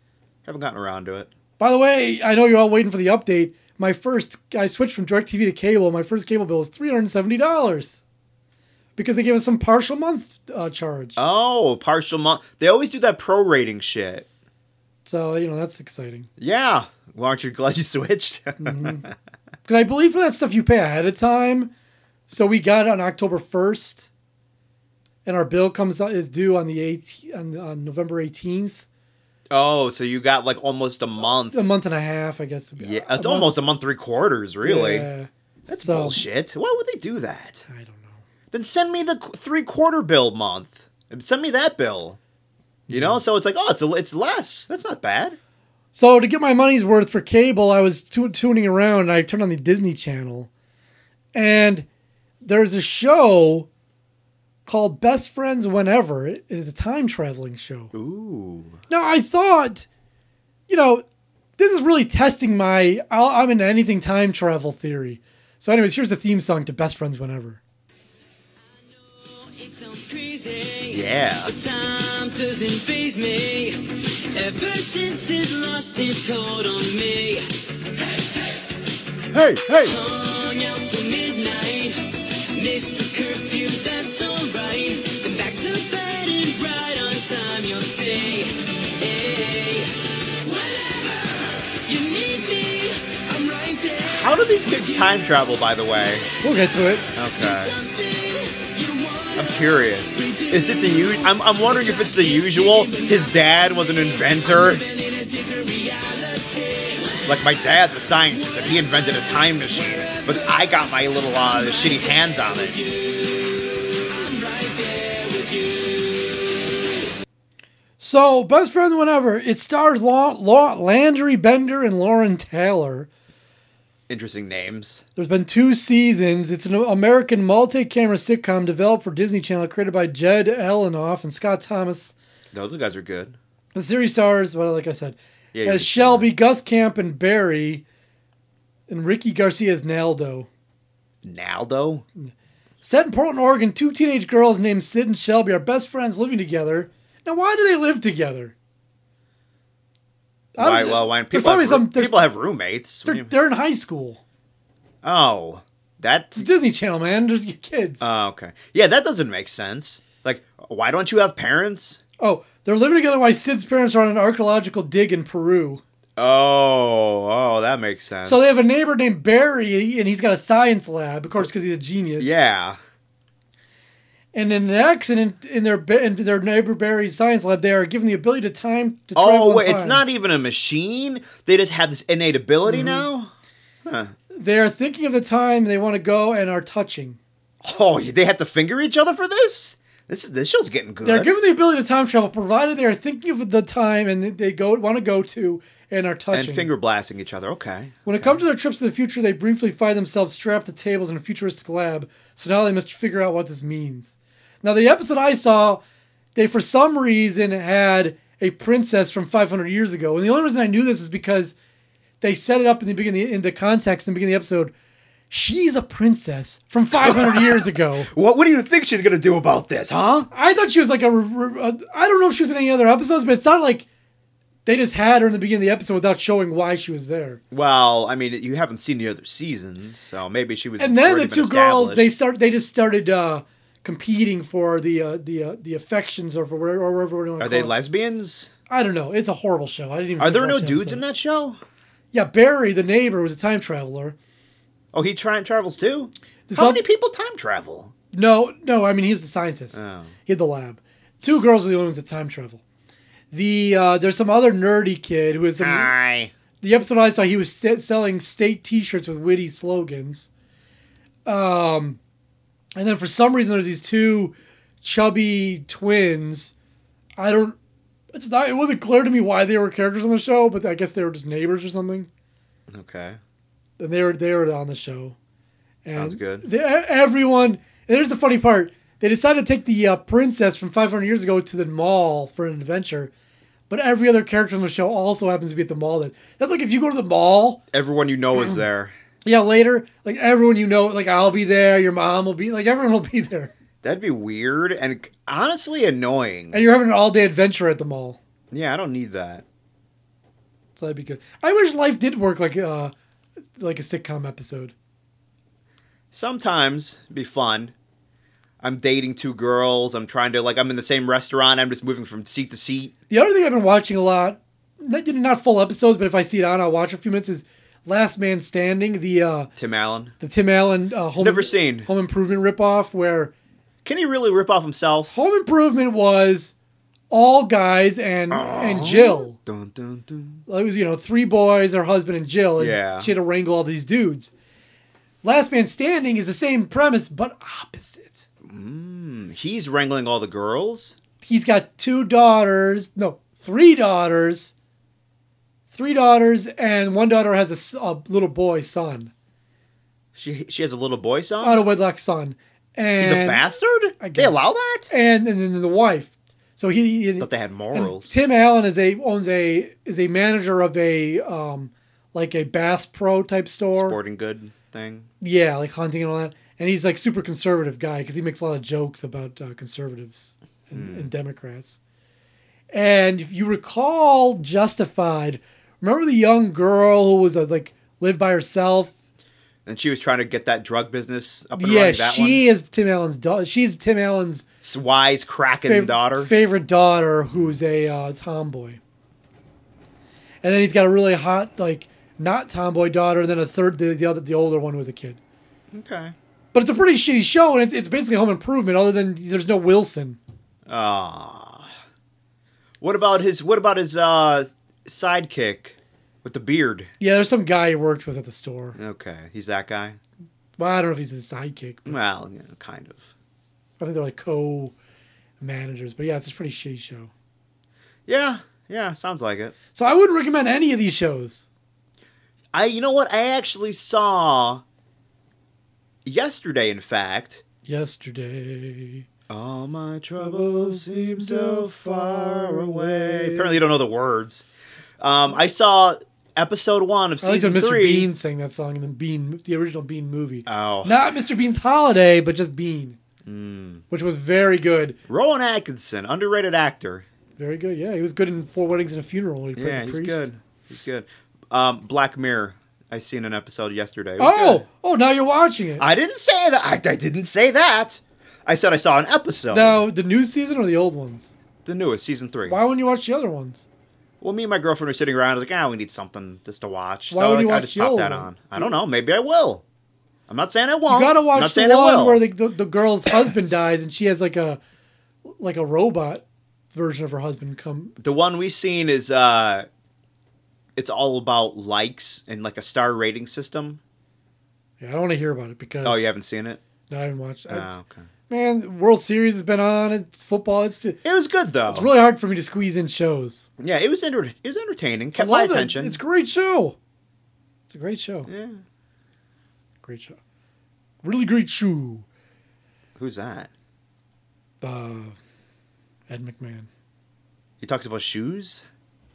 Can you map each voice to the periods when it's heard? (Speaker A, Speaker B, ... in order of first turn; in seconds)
Speaker A: 0.5-1.3, 11.2-14.3, 16.4-19.1, 29.5-31.6, 32.8-35.1, 35.7-37.6, 38.5-42.2, 42.9-45.4, 57.9-58.8, 70.9-71.5, 79.3-80.0, 94.1-96.3, 97.2-97.7, 99.4-104.8, 107.3-112.8, 124.1-125.0, 132.5-133.4, 135.5-136.3, 141.2-142.1, 150.6-153.3, 155.0-156.5, 158.0-162.0, 166.2-168.5, 172.2-172.8, 179.2-183.3, 183.8-184.1, 187.6-191.3, 196.3-198.4, 217.0-220.3, 227.5-232.1, 237.4-238.5, 240.2-241.6, 244.9-247.9, 249.7-250.1, 255.6-256.3, 272.7-273.2, 275.9-276.5, 287.7-288.9, 293.8-296.6, 298.5-299.4, 306.1-307.7, 308.6-312.9, 319.6-320.1, 321.2-321.9, 323.9-325.2, 328.3-330.4, 332.6-333.1, 338.4-341.0, 350.1-351.6, 353.0-354.9, 357.2-358.2, 363.7-365.1, 370.7-371.1, 379.7-382.4, 384.6-386.3, 395.7-396.1, 400.7-401.7, 402.8-406.9, 408.8-410.0, 411.9-413.1, 418.1-419.6, 422.5-424.6, 426.1-427.4, 429.3-434.5, 435.0-438.1, 440.5-441.0, 443.2-443.9, 445.1-447.1, 449.6-454.6, 455.8-459.8, 461.6-462.6, 464.2-469.6, 470.3-472.2, 478.0-479.7, 480.8-483.8, 485.8-486.6, 487.5-488.1, 491.0-491.9, 493.6-496.0, 498.3-498.6, 503.0-503.5, 507.6-508.7
Speaker B: 1.6-8.0, 9.0-11.2, 15.1-16.3, 18.6-19.1, 19.6-21.7, 22.3-24.1, 25.2-28.9, 31.5-33.6, 34.6-36.2, 37.7-38.2, 42.9-43.2, 45.9-50.5, 51.3-51.9, 52.4-53.7, 54.7-57.9, 58.9-59.9, 60.7-61.0, 61.6-67.6, 96.4-97.1, 118.0-123.1, 125.2-132.2, 133.8-137.8, 138.9-140.5, 142.2-148.5, 150.6-152.2, 153.1-154.2, 156.4-158.1, 162.2-165.8, 168.2-172.4, 174.3-180.0, 182.6-183.1, 184.3-187.2, 191.0-196.7, 198.1-204.1, 204.6-205.8, 206.3-211.6, 212.2-214.7, 215.3-218.1, 220.3-223.9, 224.7-227.4, 230.8-237.7, 238.7-241.0, 242.1-244.2, 246.5-246.8, 248.1-252.6, 253.3-255.9, 256.6-260.3, 261.3-262.0, 262.8-266.5, 267.2-267.6, 268.1-272.1, 273.8-275.2, 275.9-283.1, 283.7-287.6, 289.2-293.5, 296.5-298.2, 300.8-302.9, 303.6-304.7, 313.1-319.5, 320.2-323.3, 325.1-326.5, 327.1-329.4, 330.5-334.3, 335.2-338.2, 341.2-344.5, 345.7-349.1, 351.4-353.4, 354.0-364.0, 365.2-371.8, 372.7-379.0, 381.6-384.4, 385.6-388.8, 390.4-395.2, 396.5-400.2, 407.0-408.8, 410.6-412.0, 413.8-414.8, 415.4-417.1, 419.8-421.5, 427.6-429.1, 430.2-433.6, 437.2-443.0, 443.9-445.0, 447.4-450.3, 454.2-455.9, 459.5-461.3, 462.5-463.6, 467.1-468.7, 470.9-474.6, 475.3-477.9, 484.8-486.1, 486.9-487.7, 488.3-491.0, 491.7-493.5, 495.2-496.8, 497.7-498.3, 499.8-500.2, 501.0-502.1, 504.6-505.2, 506.1-506.7
Speaker C: 68.7-77.5, 78.0-78.6, 79.8-95.4, 97.4-107.5, 108.3-116.8